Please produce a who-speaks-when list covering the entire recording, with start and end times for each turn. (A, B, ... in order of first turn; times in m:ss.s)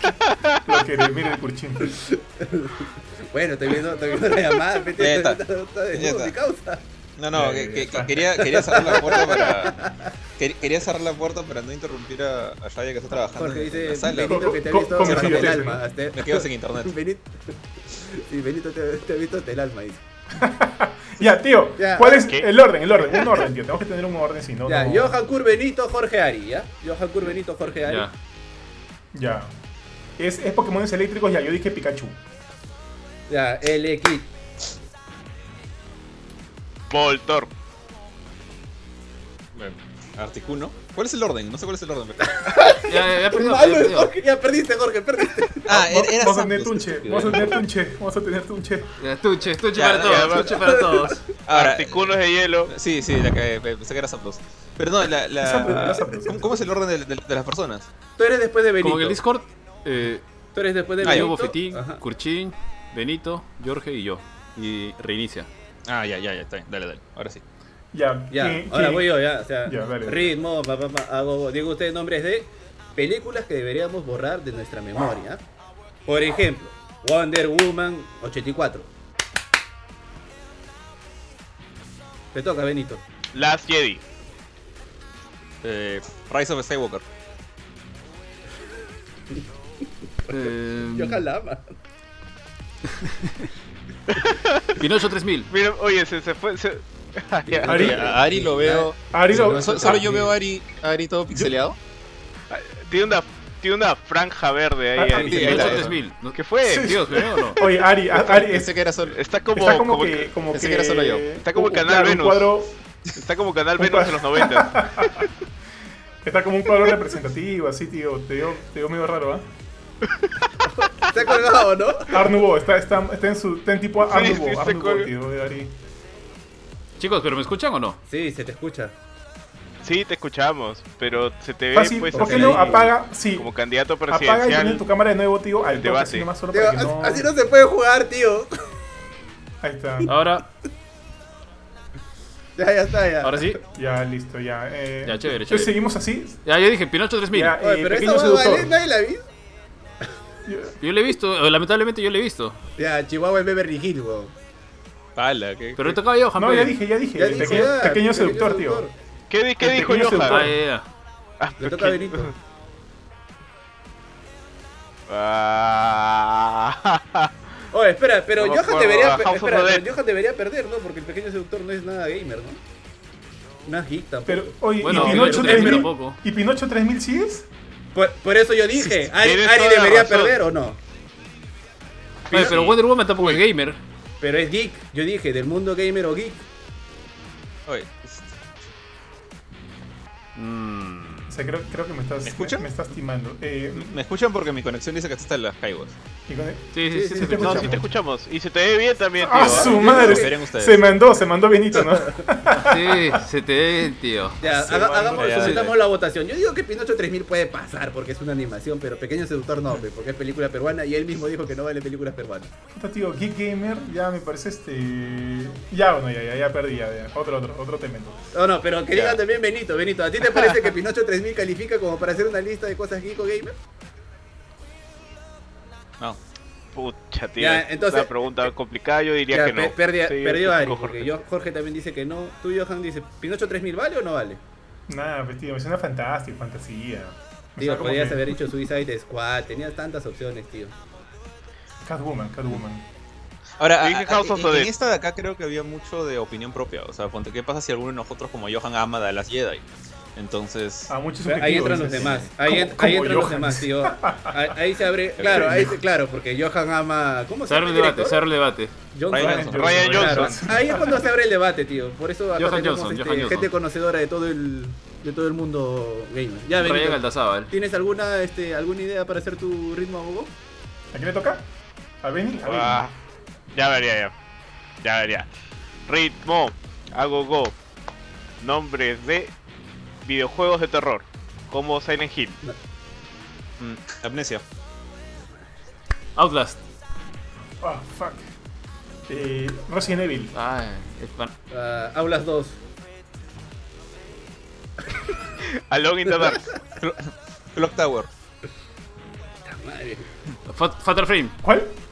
0:00.3-0:00.6 A
0:00.6-0:02.0 B
0:01.9-0:06.8 C
0:05.0-0:05.4 D
0:05.9-0:06.3 D
0:07.2-0:09.8 D
0:07.3-0:08.4 B
0:08.5-0:10.1 C
0:10.4-0:16.9 D
0:13.4-0:20.0 C
0:14.2-0:15.8 B
0:20.4-0:25.2 B
0:21.8-0:22.3 C
0:22.1-0:22.5 A
0:24.7-0:28.1 C
0:27.9-0:28.1 E
0:29.1-0:29.5 B
0:30.2-0:32.2 B
0:33.3-0:34.3 C
0:36.9-0:37.5 A
0:39.5-0:42.4 D
0:42.2-0:45.8 C
0:42.8-0:44.1 E
0:45.7-0:47.4 D
0:45.7-0:48.9 B
0:49.0-0:51.2 E
0:49.7-0:50.5 D
0:50.0-0:50.6 A
0:50.5-0:51.3 C
0:51.4-0:52.2 D
0:51.5-0:52.7 A
0:52.7-0:57.9 D
0:55.4-0:56.6 B
0:58.2-0:59.2 C
0:58.8-1:00.2 E
1:00.5-1:02.0 C
1:01.0-1:05.5 E
1:01.0-1:01.3 D
1:05.8-1:07.4 D
1:07.9-1:10.3 B
1:08.3-1:15.4 C
1:16.0-1:18.9 C
1:22.3-1:23.0 C
1:23.3-1:24.0 A
1:25.6-1:27.0 D
1:30.3-1:31.2 E
1:30.8-1:31.7 C
1:32.9-1:33.4 E
1:34.2-1:34.7 A
1:34.8-1:35.5 E
1:35.5-1:37.8 A
1:37.4-1:40.4 C
1:37.7-1:38.1 B
1:37.7-1:41.8 D
1:39.1-1:40.0 B
1:42.5-1:47.0 A
1:45.0-1:45.3 B
1:45.2-1:45.8 C
1:45.2-1:45.9 D
1:45.4-1:47.6 E
1:46.6-1:48.7 B
1:48.1-1:49.2 D
1:49.1-1:50.3 A
1:49.6-1:52.7 B
1:50.5-1:51.4 D
1:51.4-1:52.6 A
1:53.2-1:55.3 A
1:53.8-1:55.3 B
1:56.2-1:59.4 B
2:00.7-2:02.3 C
2:02.1-2:05.7 B
2:04.0-2:05.1 A
2:07.0-2:08.0 E
2:08.1-2:08.9 C
2:09.8-2:12.8 A
2:11.7-2:13.5 B
2:12.1-2:12.9 C
2:13.3-2:14.8 A
2:14.1-2:17.3 B
2:15.7-2:16.3 A
2:16.5-2:18.6 C
2:19.6-2:20.1 B
2:20.0-2:20.5 E
2:22.6-2:23.6 C
2:23.2-2:23.6 E
2:23.7-2:26.4 B
2:25.0-2:25.7 E
2:26.4-2:27.6 E
2:27.3-2:28.8 B
2:27.6-2:29.2 C
2:30.4-2:30.8 B
2:30.8-2:32.6 E
2:32.8-2:34.3 C
2:35.2-2:36.0 D
2:35.8-2:36.8 E
2:36.3-2:38.8 B
2:37.2-2:38.9 C
2:37.3-2:37.7 E
2:39.3-2:40.5 A
2:39.6-2:40.6 B
2:40.2-2:40.8 E
2:41.4-2:42.3 A
2:41.6-2:42.3 C
2:45.1-2:47.3 A
2:47.7-2:52.6 C
2:48.4-2:49.9 A
2:53.6-2:55.9 C
2:54.3-2:57.5 B
2:54.8-2:56.2 E
2:54.9-2:55.5 A
2:57.9-3:00.8 C
2:59.1-3:00.4 A
3:02.3-3:03.8 E
3:02.3-3:02.6 C
3:02.3-3:03.4 D
3:04.2-3:06.4 C
3:07.7-3:08.4 D
3:10.3-3:11.4 E
3:11.3-3:14.0 B
3:12.2-3:12.6 D
3:13.7-3:15.9 D
3:16.3-3:17.9 B
3:16.7-3:17.7 E
3:16.9-3:17.8 C
3:17.4-3:19.9 A
3:19.2-3:23.2 B
3:19.4-3:20.4 C
3:19.7-3:20.9 D
3:21.8-3:22.2 C
3:22.5-3:24.4 E
3:24.4-3:32.5 C
3:24.4-3:25.7 B
3:25.2-3:25.8 D
3:32.7-3:38.2 B
3:38.3-3:43.6 C
3:38.9-3:39.2 D
3:46.7-3:51.2 A
3:47.4-3:48.4 C
3:49.3-3:54.4 C
3:54.9-3:58.4 B
3:57.6-4:00.7 C
4:01.8-4:02.8 B
4:03.6-4:10.9 D
4:03.8-4:04.7 A
4:10.9-4:14.6 B
4:11.2-4:18.2 C
4:15.2-4:15.7 D
4:15.2-4:15.8 B
4:17.4-4:18.7 E
4:18.9-4:30.3 C
4:19.1-4:20.3 D
4:19.1-4:21.0 B
4:19.4-4:20.4 A
4:22.3-4:23.5 E
4:26.6-4:27.5 E
4:30.9-4:31.4 B
4:32.0-4:32.9 B
4:32.4-4:32.9 A
4:33.5-4:34.1 A
4:34.8-4:35.3 A
4:35.9-4:37.5 A
4:38.4-4:39.3 A
4:40.0-4:42.4 A
4:43.6-4:44.4 D
4:46.2-4:46.6 E
4:47.6-4:48.2 B
4:49.1-4:50.3 B
4:50.3-4:51.3 E
4:51.5-4:52.6 C
4:55.7-4:56.5 A
4:56.8-4:58.1 D
4:59.4-5:00.1 C
5:00.4-5:01.4 E
5:01.4-5:01.7 B